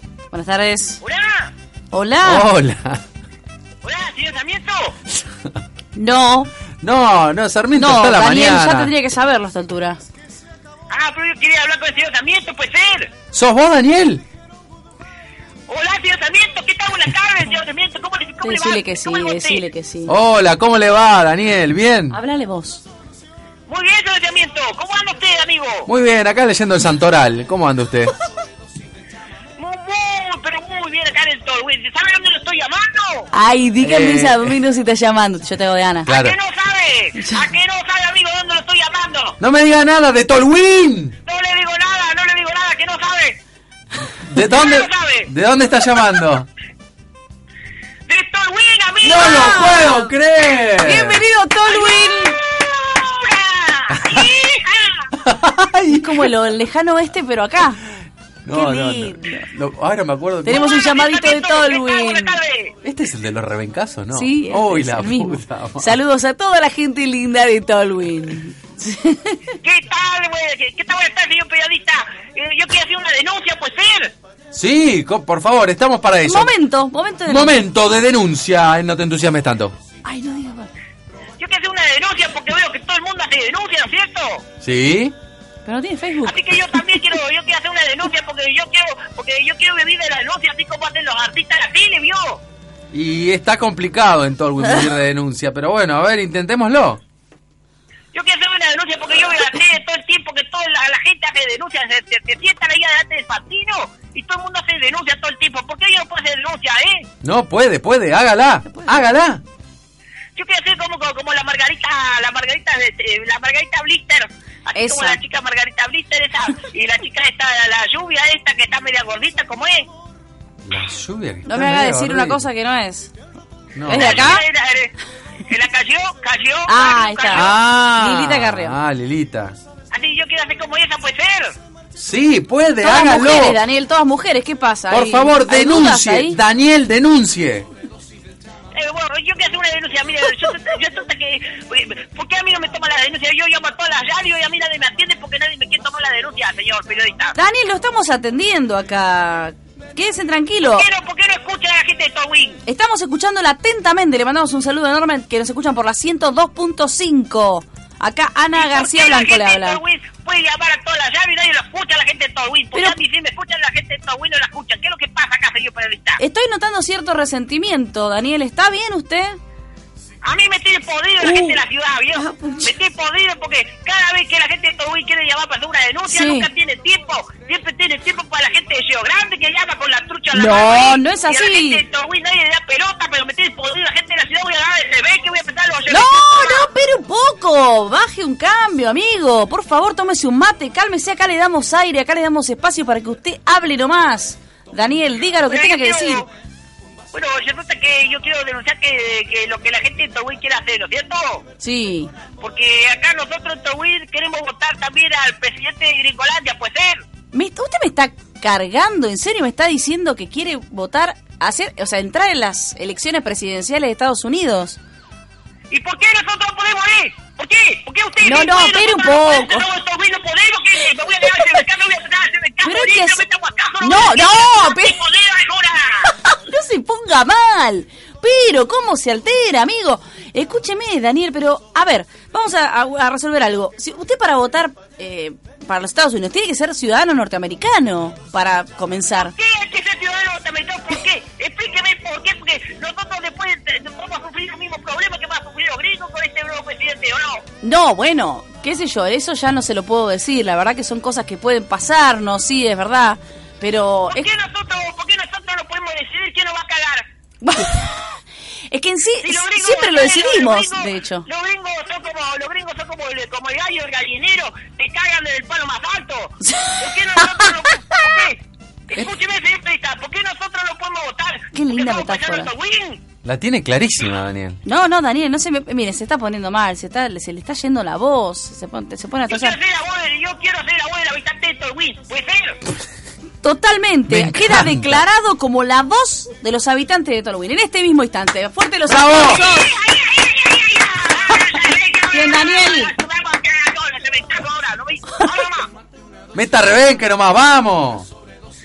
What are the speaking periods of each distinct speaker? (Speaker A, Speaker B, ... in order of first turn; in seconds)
Speaker A: 0.3-1.0, 1.9-2.5, 5.9-6.5, 7.7-10.0, 18.4-20.1, 22.1-22.8, 33.3-36.1, 37.2-37.5, 49.4-50.0, 50.8-52.4, 55.9-57.8, 58.5-59.5, 60.4-62.4, 64.1-69.4, 76.2-77.6, 80.0-80.7, 85.6-86.5, 108.7-109.0, 114.7-115.2, 121.5-123.1, 123.8-124.4, 126.7-128.8, 132.8-136.4, 147.3-150.9, 152.6-159.8, 166.2-169.4, 171.2-171.6, 172.1-172.7, 176.1-176.5, 180.3-181.8, 185.9-196.2, 201.6-202.1, 207.3-214.8, 218.2-219.7, 222.6-223.2, 223.8-225.0, 226.1-239.3, 247.6-254.3, 257.4-261.2, 266.4-267.5, 271.5-272.5, 274.6-279.6, 283.4-289.7, 292.1-292.9
Speaker B: 1.0-1.5, 3.8-5.0, 10.9-13.1, 15.7-19.6, 23.7-25.9, 29.6-33.3, 36.1-39.4, 41.2-43.4, 44.4-45.3, 48.1-49.9, 51.6-55.0, 60.5-62.7, 69.6-74.1, 81.4-84.4, 86.2-92.4, 98.1-107.1, 110.3-119.9, 123.9-124.9, 125.5-127.5, 129.9-131.5, 138.7-147.3, 150.6-152.6, 158.5-166.2, 170.2-186.7, 195.5-196.2, 197.1-201.4, 202.4-207.0, 215.7-226.1, 239.2-247.4, 254.1-257.1, 259.2-273.0, 279.3-282.6, 289.1-295.7
Speaker C: 2.2-3.0, 6.8-8.9, 13.3-14.2, 20.1-22.2, 25.9-28.1, 33.8-34.6, 36.0-36.4, 39.4-41.1, 44.2-46.5, 49.0-51.2, 53.9-54.3, 55.1-56.3, 58.4-60.6, 62.8-66.0, 74.5-76.5, 77.3-79.7, 84.6-85.1, 92.9-97.0, 107.2-109.4, 120.6-122.4, 123.7-124.3, 127.3-129.6, 131.9-133.6, 134.9-137.7, 273.2-274.6, 284.1-285.0, 288.9-289.4, 296.3-298.1